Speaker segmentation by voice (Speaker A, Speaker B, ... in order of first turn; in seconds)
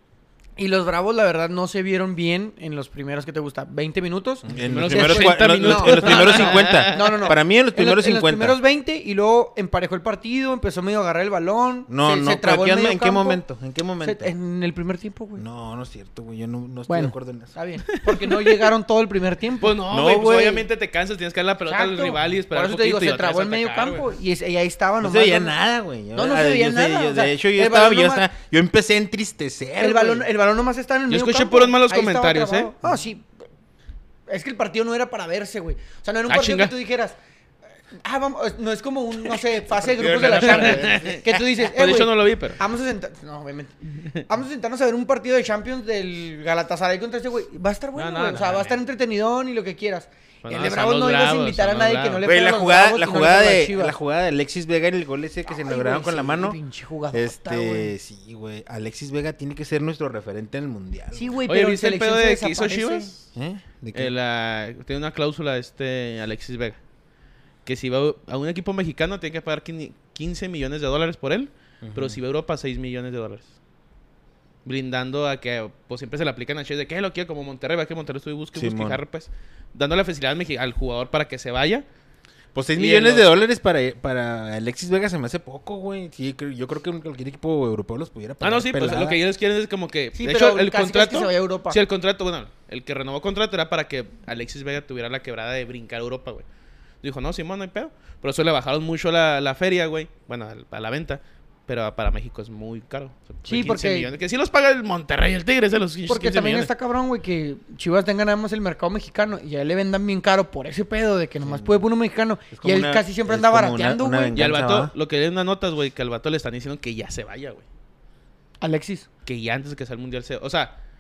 Speaker A: 0.6-13.4, 14.0-15.4, 16.9-19.8, 21.7-25.6, 26.1-28.3, 29.8-33.3, 34.3-37.2, 38.0-54.0, 55.5-57.9, 61.1-63.1, 90.2-91.8, 103.5-104.1, 106.1-114.4, 118.6-119.1
Speaker B: 4.5-8.6, 11.9-14.3, 15.4-17.5, 19.9-20.7, 25.0-30.3, 39.7-41.2, 52.2-56.6, 57.1-61.4, 63.3-64.1, 71.8-72.2, 78.5-79.0, 82.5-89.2, 111.4-111.8, 112.5-114.9
Speaker C: 4.5-7.2, 17.9-18.7, 19.6-24.1, 31.1-32.7, 36.3-36.7, 40.3-42.6, 48.0-48.8, 50.5-52.2, 61.5-63.3, 63.9-66.8, 67.7-73.5, 74.7-81.9, 82.8-83.3, 88.4-96.4, 97.0-106.7, 114.3-117.6, 119.2-120.7